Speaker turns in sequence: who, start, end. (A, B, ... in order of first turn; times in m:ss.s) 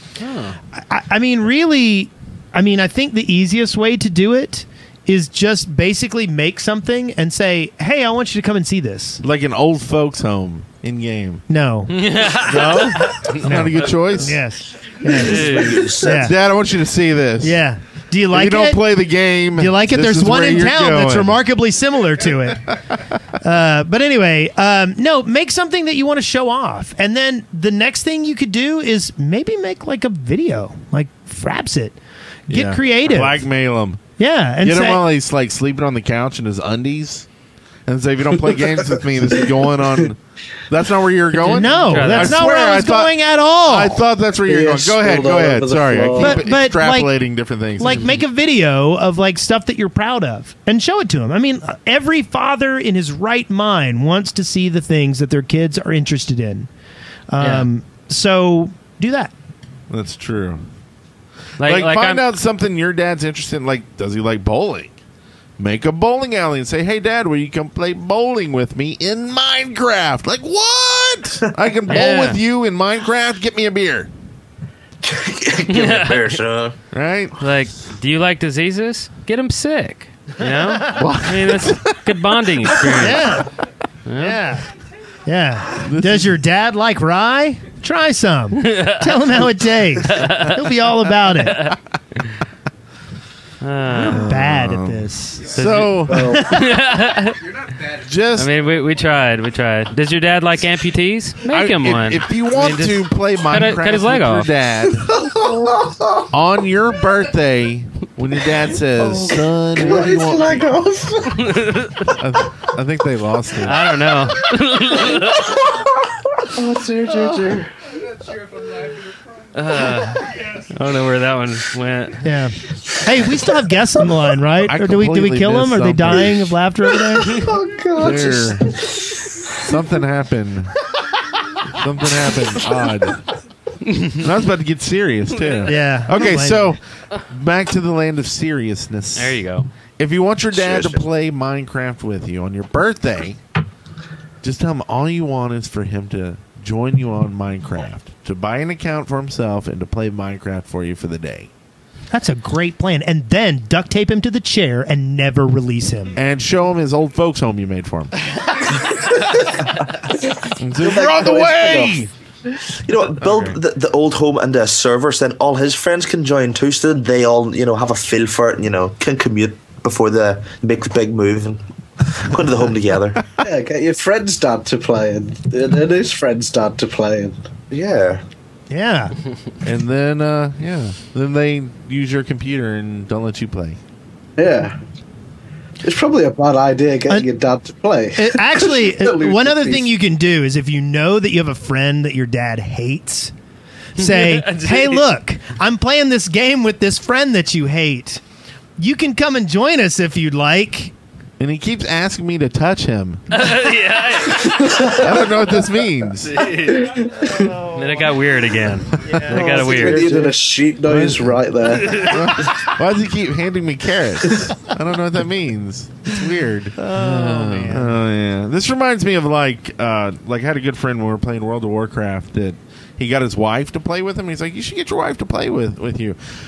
0:00.2-0:00.6 A
0:00.7-0:09.2 B
0:09.2-0:11.4 C
0:11.5-0:12.0 B
0:11.9-0:14.0 A
0:12.4-0:14.4 C
0:13.4-0:16.3 B
0:15.1-0:16.3 D
0:15.1-0:15.9 A
0:16.0-0:17.6 C
0:17.4-0:18.8 B
0:18.3-0:21.4 C
0:19.5-0:22.7 B
0:23.4-0:32.0 B
0:32.5-0:33.4 B
0:32.5-0:34.0 C
0:34.2-0:35.1 B
0:34.6-0:37.3 C
0:37.9-0:48.1 C
0:41.4-0:42.4 A
0:41.4-0:44.0 B
0:44.5-0:46.4 E
0:46.2-0:47.2 B
0:47.8-0:56.7 B
0:47.9-0:48.2 A
0:57.3-0:59.3 B
0:57.4-0:57.7 A
0:59.9-1:00.6 C
1:01.6-1:02.2 A
1:01.6-1:04.9 C
1:05.6-1:14.1 C
1:11.9-1:12.4 A
1:15.0-1:16.8 D
1:15.7-1:16.4 A
1:16.9-1:17.4 C
1:17.4-1:23.4 A
1:20.9-1:22.1 C
1:22.9-1:23.5 B
1:24.1-1:24.4 A
1:24.2-1:24.7 B
1:25.3-1:31.7 B
1:25.8-1:26.4 C
1:28.6-1:29.4 A
1:30.0-1:30.7 A
1:31.4-1:31.8 A
1:33.6-1:34.3 A
1:34.0-1:36.4 C
1:34.1-1:35.5 B
1:35.6-1:37.5 A
1:36.1-1:36.5 E
1:36.1-1:36.6 B
1:37.9-1:38.5 C
1:38.4-1:44.5 A
1:41.5-1:45.2 C
1:45.1-1:46.2 E
1:46.3-1:50.7 C
1:49.0-1:51.6 E
1:51.5-1:52.1 A
1:52.2-1:53.9 C
1:53.6-1:55.6 A
1:56.4-1:57.7 E
1:59.5-2:02.2 A
2:02.2-2:07.4 B
2:04.6-2:06.6 C
2:07.2-2:09.3 E
2:07.9-2:08.8 C
2:09.6-2:10.8 C
2:11.7-2:13.2 C
2:13.9-2:14.2 A
2:14.2-2:19.4 C
2:15.7-2:16.7 B
2:19.2-2:19.7 A
2:20.0-2:23.4 C
2:20.5-2:21.0 D
2:24.4-2:31.5 C
2:32.1-2:36.2 B
2:36.2-2:38.6 C
2:40.5-2:42.1 C
2:40.8-2:42.0 E
2:42.8-2:53.3 D
2:43.2-2:43.5 C
2:53.4-2:57.4 E
2:57.7-2:58.2 D
2:58.7-2:59.1 B
2:59.6-3:03.8 C
3:04.4-3:04.8 E
3:05.8-3:09.9 E
3:08.2-3:13.3 B
3:14.0-3:18.2 B
3:14.0-3:15.0 A
3:18.8-3:20.9 B
3:21.4-3:23.4 C
3:23.3-3:25.1 A
3:24.8-3:26.5 C
3:26.2-3:27.1 A
3:26.6-3:27.5 E
3:27.2-3:28.1 B
3:27.7-3:30.1 A
3:29.0-3:30.2 B
3:29.1-3:29.4 C
3:29.3-3:30.0 D
3:29.4-3:32.2 E
3:30.8-3:31.4 C
3:31.7-3:32.4 A
3:31.9-3:46.2 C
3:36.8-3:38.0 B